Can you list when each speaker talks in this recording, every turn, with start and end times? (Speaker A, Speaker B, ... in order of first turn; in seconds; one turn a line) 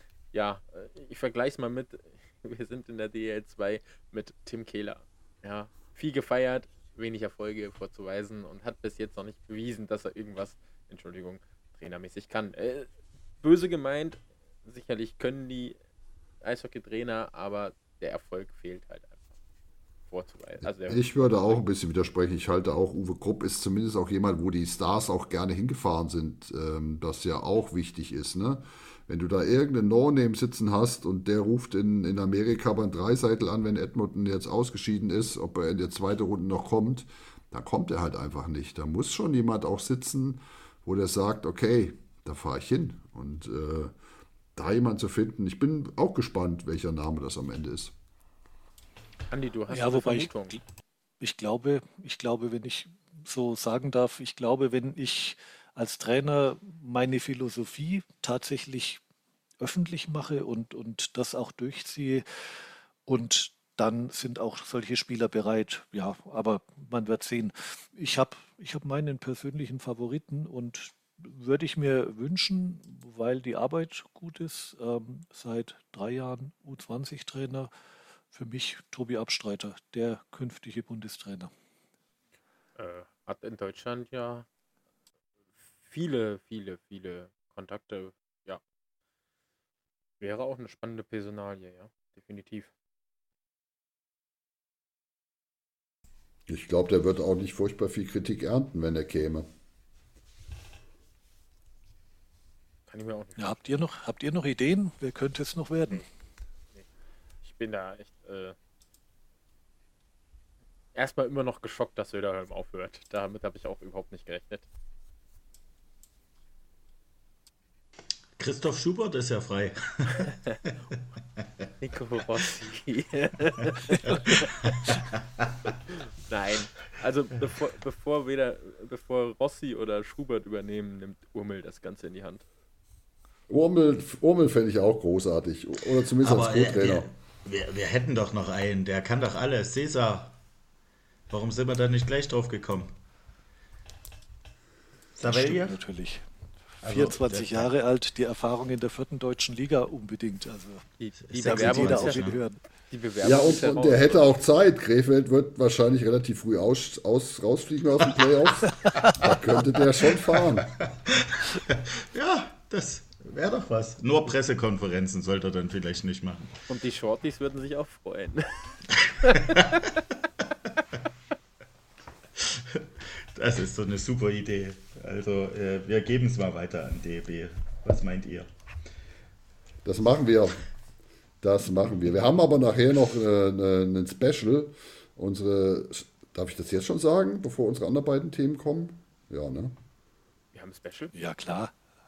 Speaker A: 0.3-12.9
Speaker A: 13.4-15.8
Speaker A: 16.4-19.2
Speaker A: 20.1-21.6
Speaker B: 20.9-43.9
Speaker B: 44.5-47.9
Speaker A: 49.3-50.5
Speaker C: 49.7-50.6
Speaker C: 51.2-59.0
Speaker C: 59.6-62.2
Speaker C: 63.0-77.7
Speaker C: 78.3-81.5
Speaker A: 82.8-84.5
Speaker A: 85.8-88.6
Speaker A: 90.2-92.7
Speaker B: 96.5-99.5
Speaker A: 102.9-103.6
Speaker C: 103.4-106.0
Speaker A: 107.4-108.5
Speaker A: 110.9-114.7
Speaker D: 118.4-120.3
Speaker A: 121.8-124.4
Speaker D: 124.0-125.7
Speaker A: 126.2-132.4
Speaker B: 133.5-137.1
Speaker D: 136.2-140.3
Speaker D: 141.3-142.9
Speaker D: 145.2-145.8
Speaker C: 145.3-146.2
Speaker C: 146.8-150.8
Speaker D: 146.8-147.7
Speaker A: 151.0-154.2
Speaker D: 151.3-152.3
Speaker C: 151.4-152.6
Speaker B: 153.2-160.7
Speaker D: 161.1-166.4
Speaker A: 166.7-169.5
Speaker D: 169.5-169.8
Speaker D: 172.4-178.5
Speaker B: 179.8-180.6
Speaker B: 181.4-189.8
Speaker A: 190.5-191.1
Speaker C: 191.1-191.7